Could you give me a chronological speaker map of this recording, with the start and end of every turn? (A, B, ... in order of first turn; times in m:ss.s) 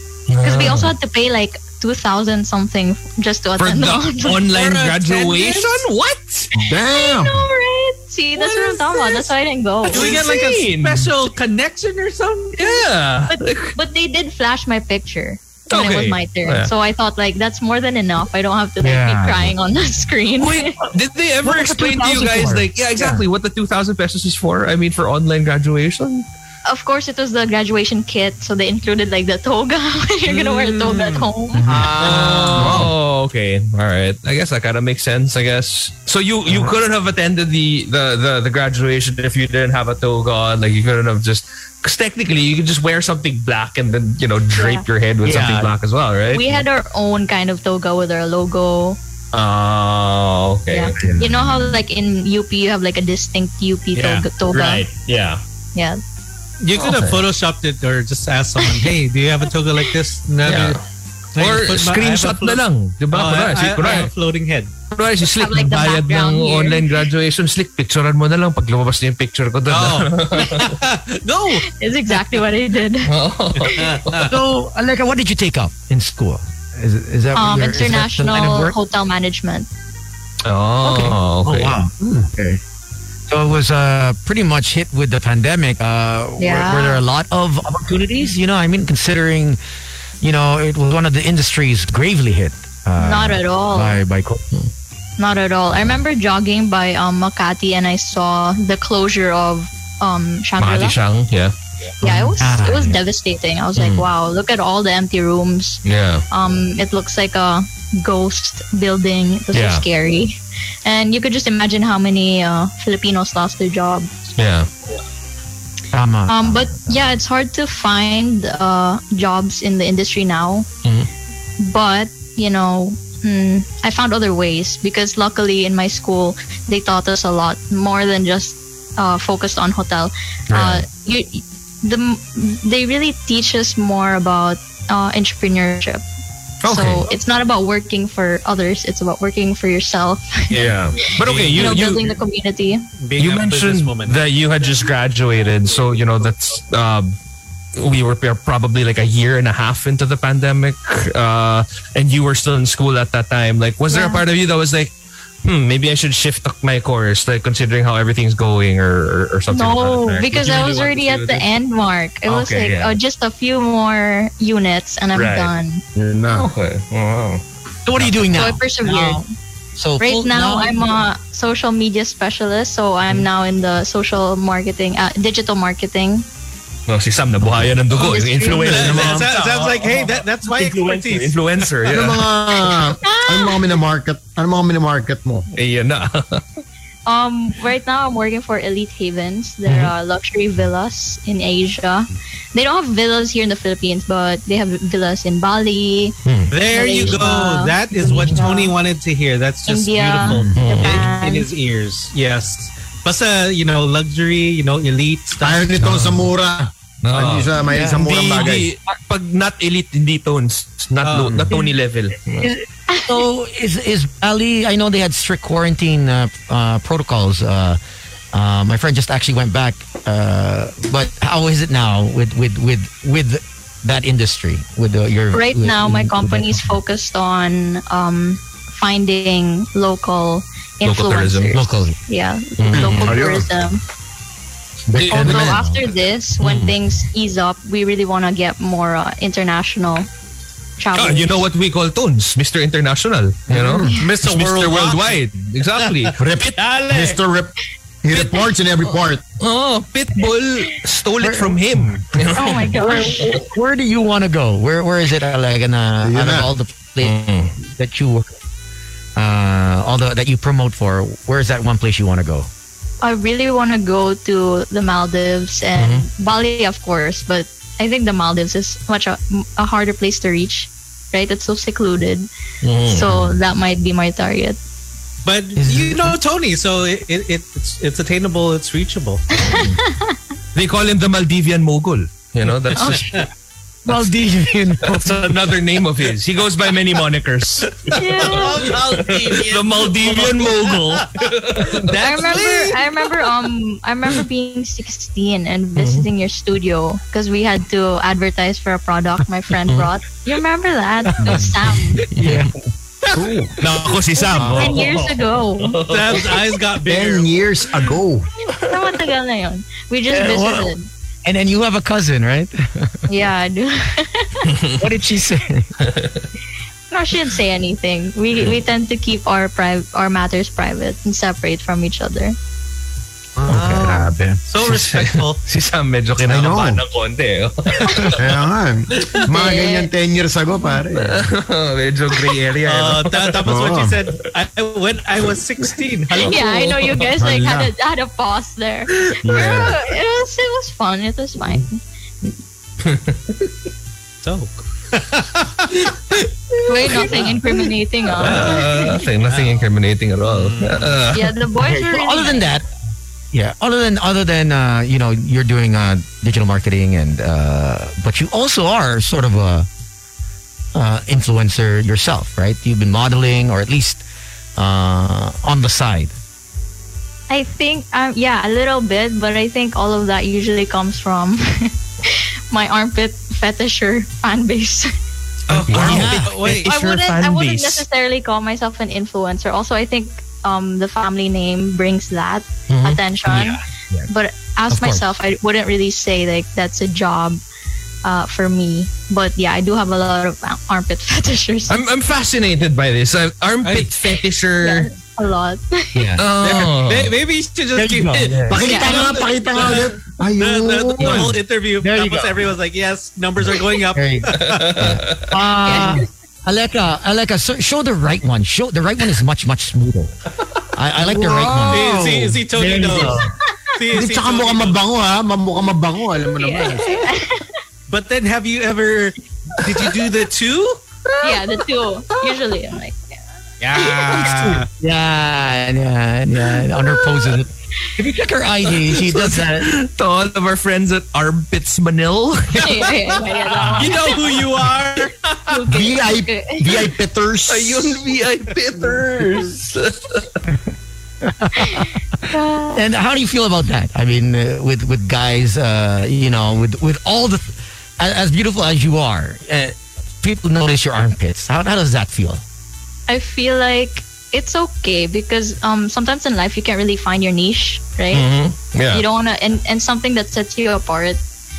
0:00.3-0:00.9 A
0:00.4-0:04.5 B
0:03.6-0:06.5 A
0:04.5-0:05.8 C
0:06.6-0:07.5 D
0:06.8-0:10.2 B
0:08.4-0:09.3 A
0:09.8-0:11.1 A
0:09.9-0:12.7 C
0:12.6-0:13.8 A
0:13.3-0:20.8 B
0:15.7-0:16.7 A
0:18.8-0:19.6 E
0:20.4-0:26.3 A
0:21.4-0:23.2 E
0:26.7-0:31.7 B
0:30.4-0:31.2 C
0:31.6-0:32.9 E
0:32.0-0:32.8 C
0:32.0-0:46.6 A
0:32.6-0:32.9 D
0:44.5-0:44.9 B
0:45.3-0:45.6 E
0:46.3-0:49.0 B
0:49.3-0:51.6 A
0:50.7-0:54.9 B
0:51.0-0:51.4 E
0:54.0-0:54.3 C
0:54.5-0:55.4 A
0:55.7-0:56.0 B
0:56.6-1:00.8 C
0:56.8-0:57.2 A
1:00.4-1:00.8 A
1:01.4-1:02.6 C
1:01.4-1:04.1 A
1:03.1-1:04.7 C
1:04.9-1:10.8 A
1:05.3-1:07.1 B
1:09.7-1:11.7 C
1:11.7-1:13.1 B
1:13.0-1:14.3 A
1:13.6-1:14.3 C
1:14.3-1:18.8 E
1:17.3-1:19.7 B
1:20.4-1:21.8 A
1:20.8-1:22.6 E
1:23.3-1:29.6 E
1:26.4-1:27.0 B
1:30.2-1:34.5 E
1:33.0-1:34.0 B
1:35.2-1:41.0 B
1:40.6-1:41.5 A
1:42.0-1:54.1 B
1:42.0-1:43.0 E
1:43.8-1:44.0 A
1:45.8-1:46.2 A
1:49.5-1:49.8 A
1:54.4-1:54.7 A
1:55.9-1:57.2 E
1:56.3-2:00.7 B
2:01.6-2:16.0 B
2:10.5-2:10.8 A
2:16.6-2:17.1 A
2:16.7-2:20.6 B
2:20.5-2:21.8 C
2:20.5-2:22.1 A
2:21.6-2:22.9 B
2:23.0-2:24.2 C
2:23.2-2:27.1 A
2:27.8-2:41.5 A
2:33.9-2:34.2 B
2:39.5-2:45.8 B
2:42.3-2:43.0 A
2:45.1-2:45.5 A
2:46.0-2:46.5 D
2:46.3-2:47.4 A
2:47.9-2:49.2 E
2:48.3-2:49.3 B
2:49.8-2:50.8 E
2:50.0-2:56.3 B
2:56.9-3:02.3 A
2:57.9-2:58.9 B
2:58.6-2:59.3 D
2:58.7-3:01.4 C
3:01.9-3:05.4 D
3:03.0-3:03.7 B
3:05.5-3:06.4 A
3:07.0-3:16.2 B
3:09.7-3:09.9 A
3:16.3-3:16.5 A
3:16.5-3:25.7 C
3:16.7-3:18.7 B
3:18.1-3:18.4 A
3:19.7-3:21.5 B
3:20.6-3:21.1 A
3:25.4-3:28.7 D
3:25.8-3:26.3 A
3:27.0-3:32.5 A
3:27.7-3:28.1 E
3:31.0-3:31.5 C
3:32.4-3:37.8 E
3:32.9-3:33.2 B
3:38.3-3:46.7 E
3:45.3-3:53.8 B
3:50.8-3:51.6 A
3:51.5-3:52.0 E
3:52.6-3:53.3 A
3:52.7-3:53.5 D
3:54.9-3:55.8 E
3:54.9-3:55.6 D
3:55.0-4:00.1 B
3:56.4-3:56.8 A
4:00.8-4:01.5 B
4:01.0-4:06.5 A
4:03.9-4:05.2 C
4:05.8-4:07.2 C
4:06.2-4:09.2 D
4:08.1-4:13.4 A
4:11.2-4:12.0 E
4:12.4-4:13.4 B
4:12.8-4:18.3 E
4:16.0-4:16.5 D
4:17.0-4:17.6 A
4:19.2-4:22.5 E
4:23.0-4:32.3 B
4:25.8-4:26.1 A
4:32.6-4:33.3 A
4:32.8-4:34.6 B
4:35.2-4:39.2 C
4:35.6-4:36.2 E
4:39.4-4:40.2 B
4:40.6-4:43.1 A
4:42.7-4:43.2 B
4:42.9-4:43.2 C
4:43.8-4:45.3 E
4:44.8-4:48.7 A
4:48.0-4:48.7 B
4:48.0-4:53.1 C
4:49.3-4:52.4 A
4:52.0-5:02.0 B
4:55.8-4:56.1 A
5:01.2-5:01.5 E
5:02.0-5:02.5 E
5:02.1-5:02.5 A
5:03.1-5:03.6 D
5:03.6-5:06.3 A
5:04.4-5:04.8 D
5:04.4-5:05.8 B
5:05.9-5:07.3 C
5:06.9-5:08.3 D
5:08.6-5:10.9 B
5:10.1-5:10.7 E
5:11.2-5:13.0 E
5:13.1-5:14.5 B
5:14.8-5:15.7 E
5:15.8-5:16.2 A
5:16.9-5:22.4 B
5:23.4-5:25.4 C
5:23.5-5:28.2 A
5:26.2-5:26.8 D
5:27.9-5:28.2 B
5:28.1-5:31.3 D
5:29.3-5:29.9 B
5:30.9-5:33.4 A
5:32.6-5:36.7 C
5:33.4-5:34.0 D
5:36.2-5:41.8 B
5:36.2-5:37.1 A
5:37.2-5:37.7 D
5:39.1-5:39.8 A
5:39.2-5:39.7 D
5:42.8-5:43.5 A
5:44.2-5:46.0 C
5:46.7-5:49.0 B
5:46.8-5:47.6 A
5:47.0-5:47.3 C
5:48.2-5:51.4 A
5:48.2-5:48.6 C
5:49.2-5:49.6 C
5:50.3-5:50.9 C
5:51.1-5:52.5 B
5:51.6-5:52.7 E
5:53.3-5:59.7 E
6:00.7-6:04.0 E
6:04.6-6:06.1 E
6:07.3-6:14.9 B
6:15.5-6:16.7 C
6:15.5-6:17.9 A
6:15.7-6:16.4 E
6:16.5-6:27.4 B
6:22.7-6:23.5 A
6:23.3-6:24.0 E
6:24.7-6:25.0 E
6:28.0-6:31.9 B
6:31.7-6:34.9 A
6:33.6-6:33.9 C
6:34.6-6:36.1 B
6:36.0-6:36.2 E
6:36.2-6:37.1 A
6:36.4-6:39.8 C
6:37.8-6:38.8 E
6:38.3-6:38.6 A
6:38.5-6:41.4 D
6:38.6-6:39.2 B
6:40.4-6:44.6 C
6:41.8-6:42.4 E
6:43.9-6:50.1 E
6:44.4-6:45.4 A
6:45.6-6:46.1 B
6:50.7-6:53.3 E
6:51.0-6:52.0 D
6:51.7-6:53.2 C
6:53.7-6:54.8 C
6:53.9-6:57.0 D
6:56.4-6:57.4 B
6:57.9-7:00.8 C
7:01.2-7:01.6 A
7:01.2-7:03.2 B
7:03.6-7:04.7 C
7:03.8-7:04.2 B
7:04.1-7:04.6 A
7:04.8-7:09.7 E
7:08.9-7:14.4 A
7:12.5-7:14.2 B
7:13.8-7:15.7 C
7:15.5-7:16.8 B
7:15.7-7:18.1 D
7:17.5-7:20.3 A
7:21.2-7:22.0 E
7:21.6-7:22.8 B
7:22.7-7:32.4 E
7:33.1-7:38.3 B
7:38.1-7:39.0 A
7:38.9-7:41.2 B